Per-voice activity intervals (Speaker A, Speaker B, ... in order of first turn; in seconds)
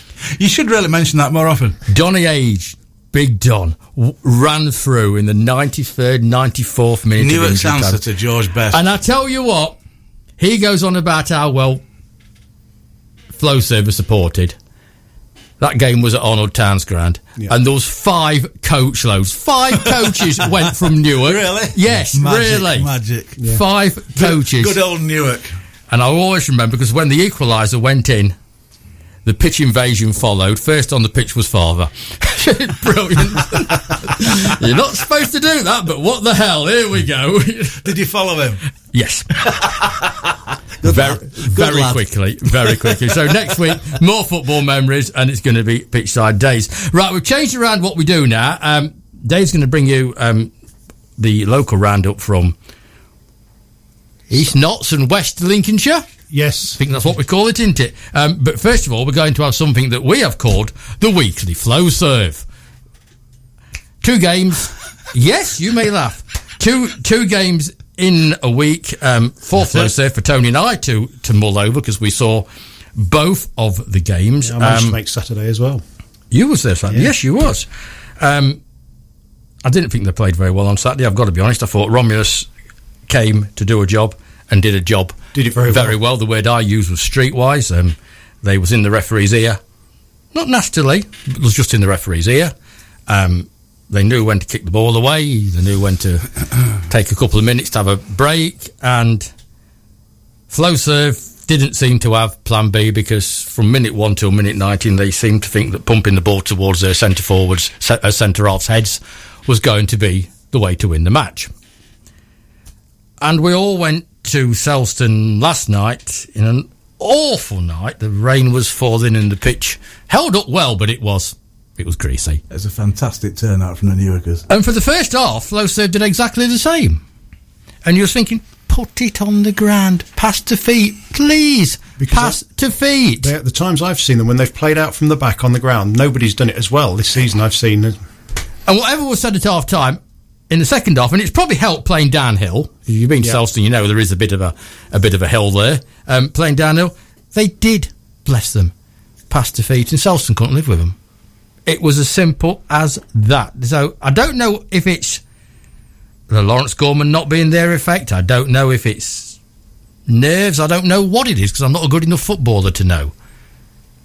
Speaker A: 0.2-1.8, 7.2-8.8, 21.1-23.4, 24.1-25.6, 37.8-38.6, 40.8-42.0, 122.5-124.5
Speaker B: 1.9-8.0, 8.7-9.8, 10.4-11.8, 13.4-14.5, 15.6-22.9, 23.4-24.8, 25.9-28.3, 29.2-37.9, 38.9-39.6, 40.8-50.5, 51.2-52.6, 54.3-56.1, 56.7-62.4, 64.0-75.0, 76.3-77.7, 78.2-78.6, 79.6-82.5, 83.1-89.6, 90.3-92.5, 93.1-99.3, 100.5-111.5, 113.2-122.4, 124.5-127.0, 127.8-133.3, 138.7-148.7, 149.3-151.0, 151.7-155.2, 156.3-159.4, 160.1-163.1
Speaker C: 23.4-23.6, 56.3-56.8, 69.6-69.9, 74.4-75.8, 85.3-86.0, 132.0-132.4, 133.2-137.9